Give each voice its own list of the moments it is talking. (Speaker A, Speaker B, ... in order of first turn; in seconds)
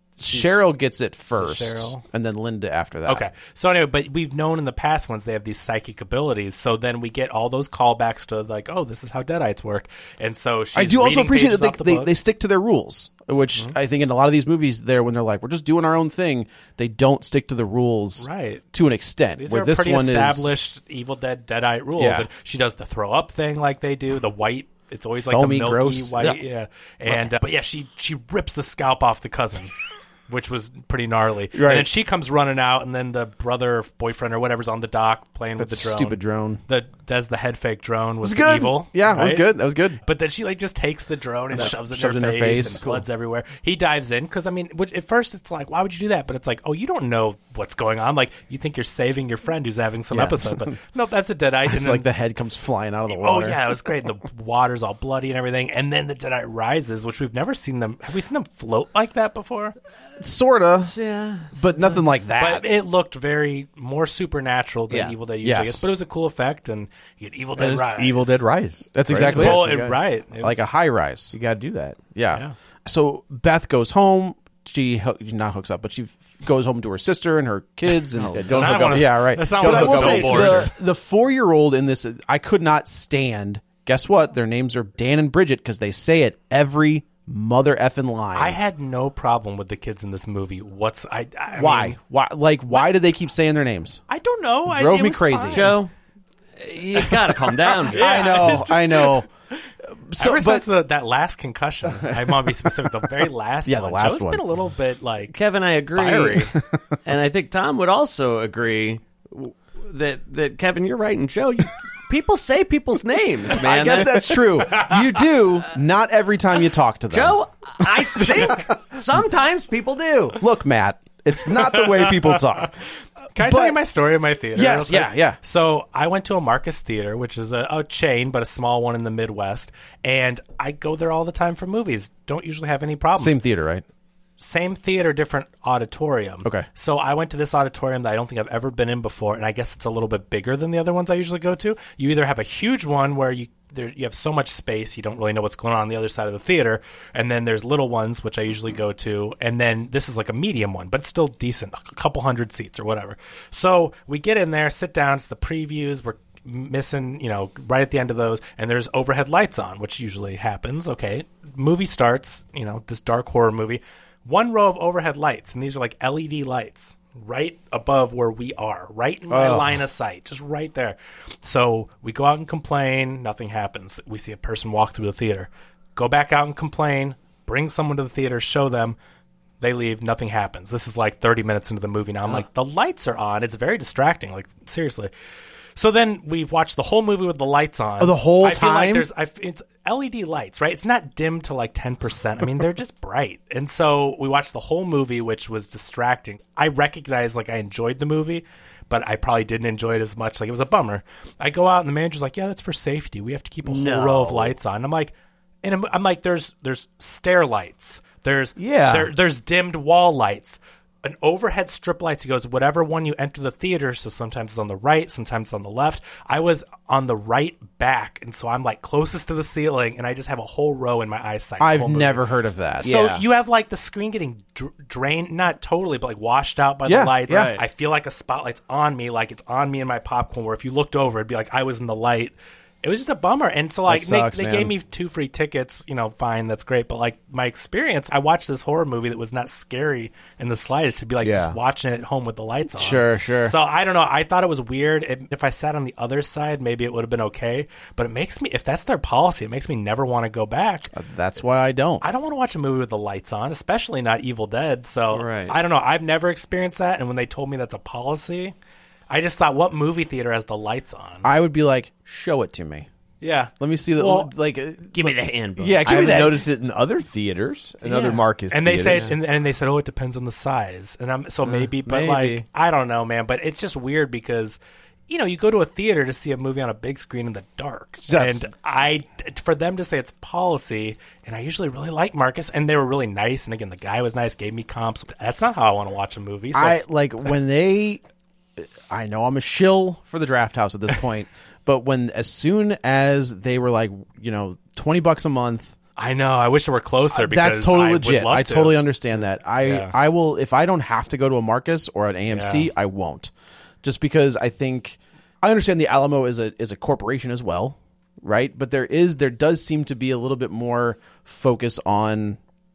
Speaker A: 0.2-3.3, 10.7-20.6, 22.0-22.2, 25.1-26.4, 31.5-31.9, 35.6-36.6, 38.2-40.0, 41.5-42.9, 50.1-50.7, 51.6-53.6, 60.2-60.9, 61.5-62.6, 65.4-65.9, 68.9-71.3, 72.1-88.6, 91.5-94.0, 94.7-95.8, 97.9-99.3, 100.1-100.6, 101.9-102.7, 103.7-104.4, 113.5-117.4, 118.2-118.6, 120.4-122.7, 123.4-123.8, 124.5-125.4, 133.2-133.8, 169.3-169.8, 188.0-189.1, 221.6-222.9, 226.8-227.6, 233.9-234.7, 242.8-243.5, 250.9-252.0, 261.2-262.9, 263.6-266.5, 278.1-278.5, 286.5-288.0, 288.9-295.7, 297.1-303.3, 303.8-312.4
Speaker B: 0.3-0.6, 1.3-2.0, 3.1-12.1, 18.2-18.6, 19.4-29.7, 30.3-39.5, 40.0-52.0, 53.1-59.7, 62.4-68.4, 69.1-70.7, 78.5-80.7, 88.3-92.0, 94.1-95.8, 97.6-99.2, 100.2-105.4, 105.9-106.5, 114.6-115.2, 121.5-122.4, 123.3-133.4, 134.4-179.0, 179.6-185.1, 185.8-222.3, 222.8-250.9, 252.0-258.5, 259.1-261.3, 263.2-264.3, 268.5-286.8, 296.0-299.9, 302.3-302.7
Speaker C: 60.8-62.0, 64.9-65.1, 95.5-95.9, 96.6-98.6, 105.3-106.5, 107.0-114.4, 117.1-120.4, 203.6-204.6, 222.8-223.2, 227.3-227.6, 255.1-255.6, 264.9-266.2, 267.9-268.2, 271.4-272.4
Speaker D: 67.5-70.0, 71.3-72.0, 78.3-80.7, 208.6-209.1, 222.8-223.2, 241.2-241.6, 265.8-269.1